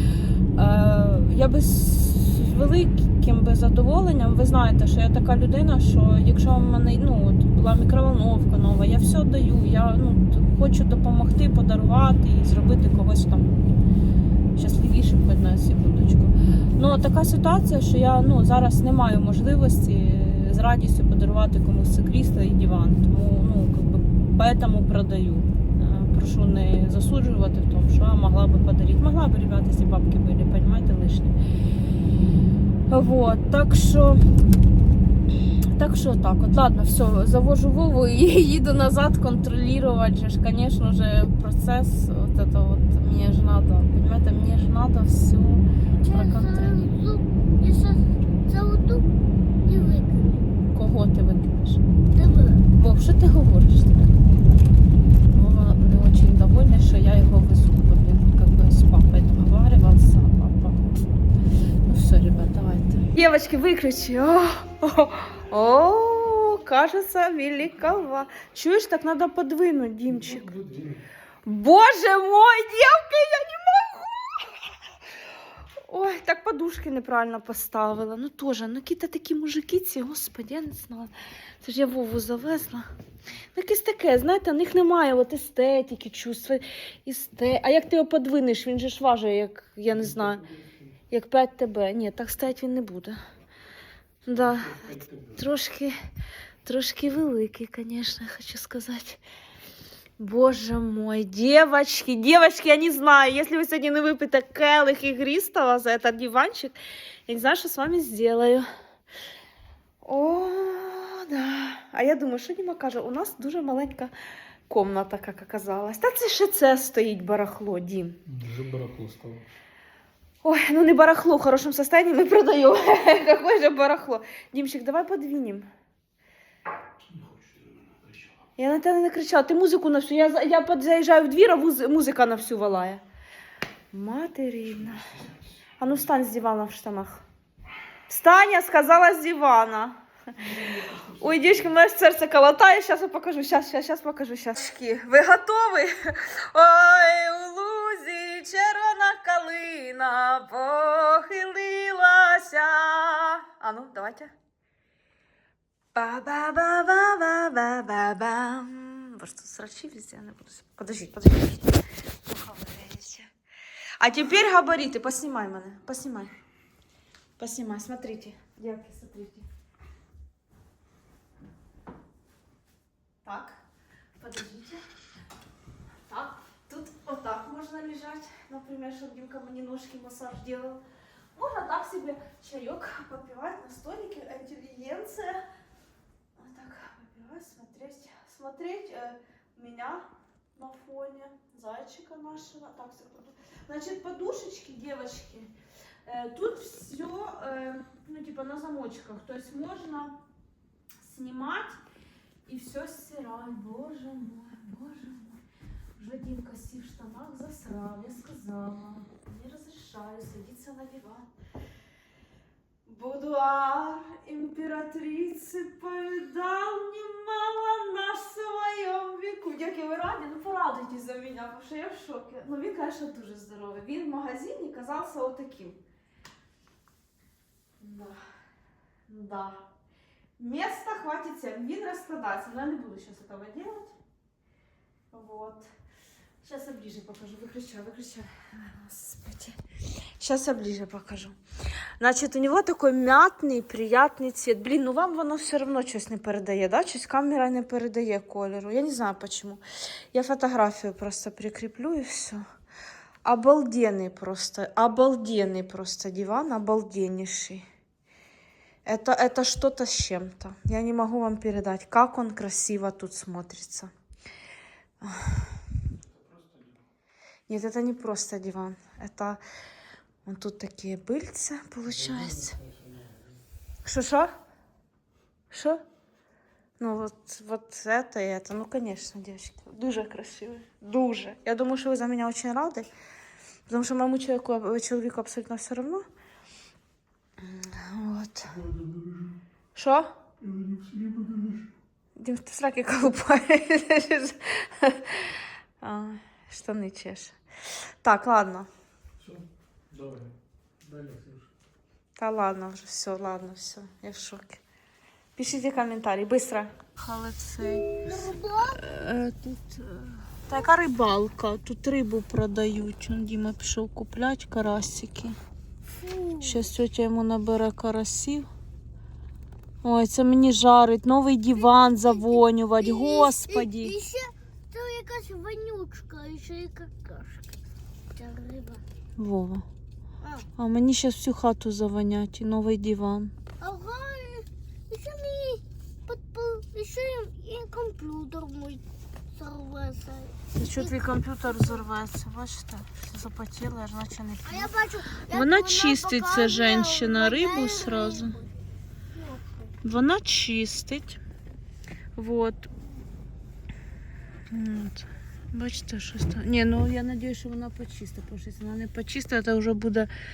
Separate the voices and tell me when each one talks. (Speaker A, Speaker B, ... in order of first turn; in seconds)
Speaker A: 0.6-13.7, 14.6-31.4, 32.9-34.2, 35.7-46.9, 50.7-51.8, 52.7-54.3, 55.3-60.9, 61.9-70.6, 71.5-74.7, 75.9-82.9, 83.5-90.4, 91.1-93.2, 94.3-96.0, 96.7-99.2, 100.2-106.8, 107.3-108.7, 110.0-114.1, 114.7-118.2, 120.4-125.7, 128.6-133.0, 133.9-135.1, 135.8-137.2, 138.1-154.3, 155.9-163.3, 164.0-166.3, 167.4-169.5, 173.2-173.6, 174.2-174.8, 176.1-180.8, 181.3-185.4, 186.4-195.5, 196.1-200.2, 201.0-201.8, 202.5-205.4, 206.0-211.3, 212.9-225.8, 227.8-228.2, 229.1-229.7, 230.4-234.0, 235.1-235.7, 236.4-239.6, 240.2-241.4, 242.0-249.6, 250.1-252.4, 253.2-257.7, 258.9-263.9, 265.0-265.5, 267.5-269.4, 270.2-272.6, 273.9-274.3, 275.5-275.8, 276.8-282.9, 283.7-286.1, 287.4-288.6, 289.8-290.1, 292.2-297.4, 298.0-298.7, 302.2-304.6, 305.4-308.1, 308.7-315.4, 316.4-318.5, 319.8-323.9, 329.2-329.6, 330.6-333.3, 340.6-344.7, 345.3-348.4, 349.8-351.2, 352.2-352.7, 354.5-360.1
Speaker B: 46.0-49.1, 49.7-50.5, 52.1-52.7, 308.0-308.8, 315.9-316.7, 321.6-327.6, 328.1-328.8, 330.2-330.5, 333.6-341.8, 344.4-348.5, 349.1-349.8
Speaker C: 70.1-71.0, 89.9-90.8, 94.4-95.4, 118.3-119.5, 127.1-128.3, 140.5-141.5, 266.2-266.7, 272.1-273.1, 288.5-289.4, 290.4-291.7, 299.2-301.5